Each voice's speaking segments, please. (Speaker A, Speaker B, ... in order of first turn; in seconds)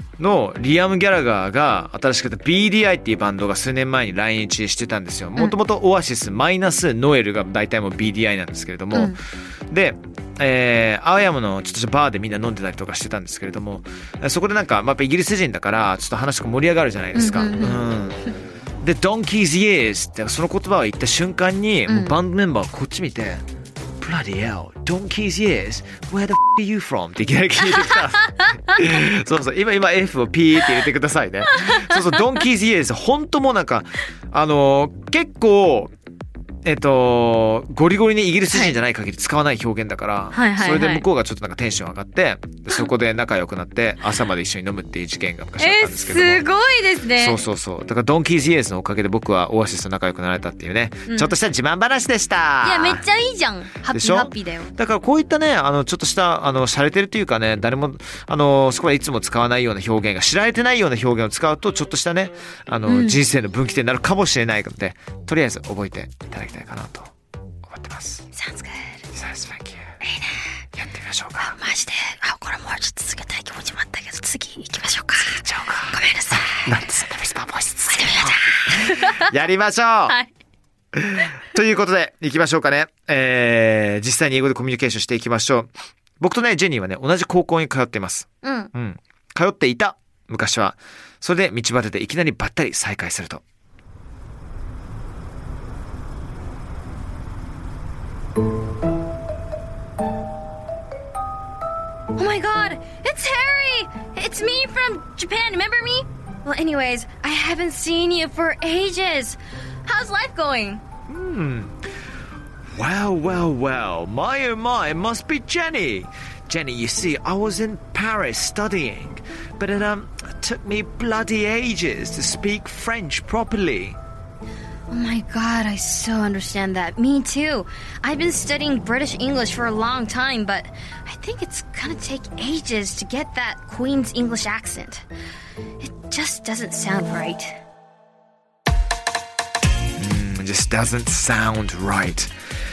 Speaker A: 0.2-18.2, 18.8-23.4, 24.0-35.9, 36.6-46.5, 47.2-53.0, 53.9-67.1, 67.7-68.3, 69.1-69.8, 70.7-71.5, 75.2-80.2, 80.9-93.4, 111.1-111.8, 112.7-124.0, 140.0-142.3
Speaker B: 8.9-9.2, 17.1-17.9, 21.9-22.2, 31.6-31.9, 40.3-41.0, 45.6-47.4, 51.1-51.4, 52.6-54.7, 62.9-63.2, 68.3-69.0, 70.0-70.4, 71.4-76.7, 77.9-79.3, 88.4-88.7, 102.1-110.8, 124.9-135.1, 135.8-137.6